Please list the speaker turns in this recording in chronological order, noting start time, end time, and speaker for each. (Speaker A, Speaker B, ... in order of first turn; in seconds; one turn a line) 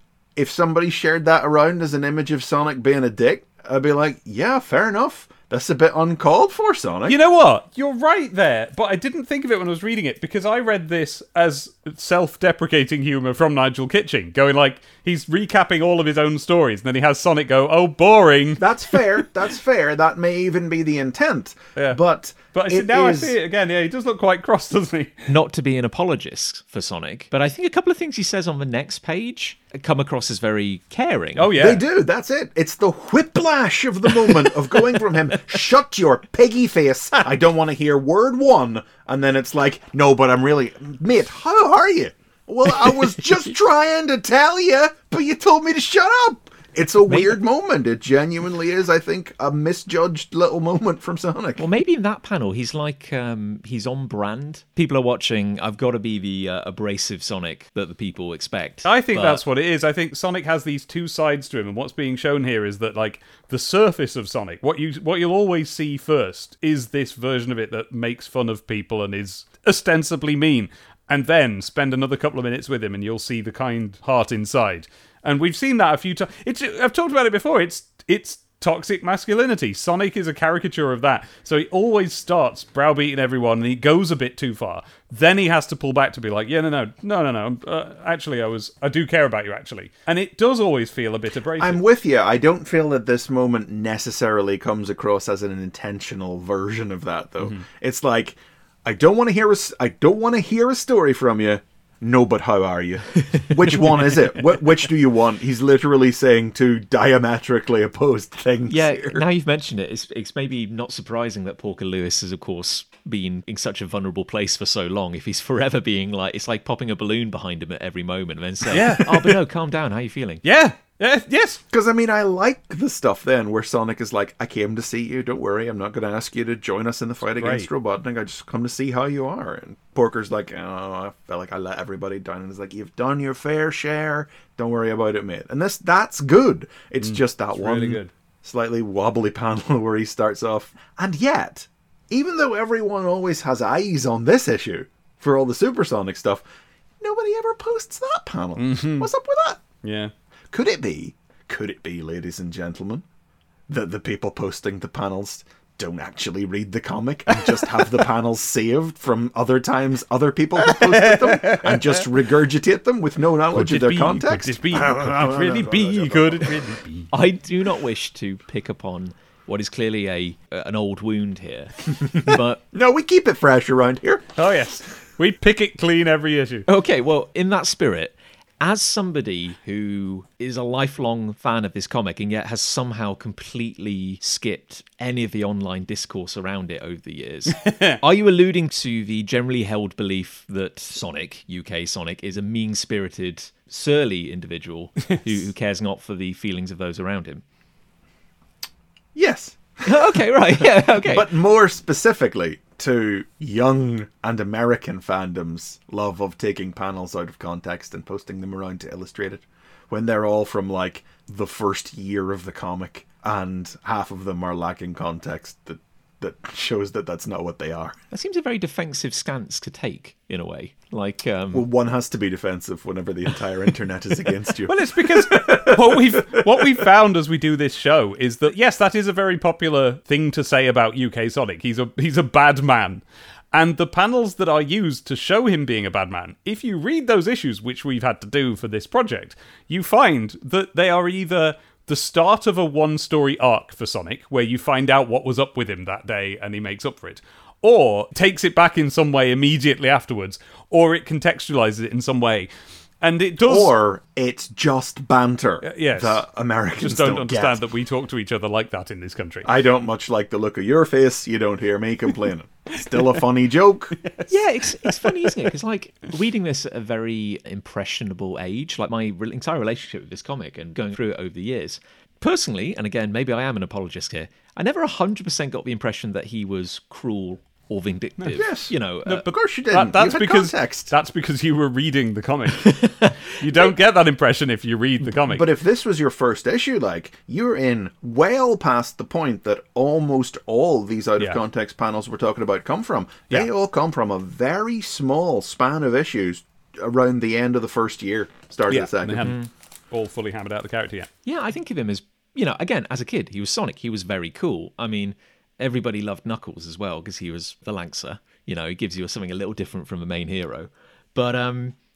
Speaker A: 0.4-7.2
Speaker B: 7.1-19.2
Speaker A: 18.6-23.4
Speaker B: 22.5-25.1
Speaker C: 25.3-31.6
Speaker B: 31.4-31.8
Speaker A: 31.6-51.6
Speaker C: 47.1-47.4
Speaker C: 51.6-59.4
Speaker B: 58.9-91.8
Speaker A: 91.6-109.2
Speaker C: 108.7-120.4
Speaker B: 118.7-119.4
Speaker B: 120.4-121.6
Speaker A: 121.7-146.4
Speaker B: 127.4-127.7
Speaker B: 137.0-138.1
Speaker A: 147.0-149.6
Speaker B: 148.6-149.1
Speaker B: 149.8-150.1
Speaker A: 150.5-153.1
Speaker A: 153.7-166.8
Speaker B: 160.6-162.1
Speaker B: 163.5-167.1
Speaker C: 167.1-172.6
Speaker A: 172.1-174.2
Speaker B: 174.4-176.7
Speaker C: 176.7-197.4
Speaker B: 187.6-188.0
Speaker A: 199.2-218.0
Speaker C: 199.8-201.3
Speaker C: 218.1-221.7
Speaker A: 221.5-226.6
Speaker B: 224.7-252.5
Speaker B: 253.0-253.7
Speaker A: 253.5-257.6
Speaker B: 255.6-256.2
Speaker B: 256.8-259.5
Speaker A: 259.4-264.0
Speaker C: 264.3-279.3
Speaker A: 278.4-278.7
Speaker B: 279.1-285.4
Speaker A: 279.2-280.9
Speaker A: 285.2-299.3
Speaker B: 298.7-301.1
Speaker C: 299.2-299.5
Speaker C: 301.2-311.8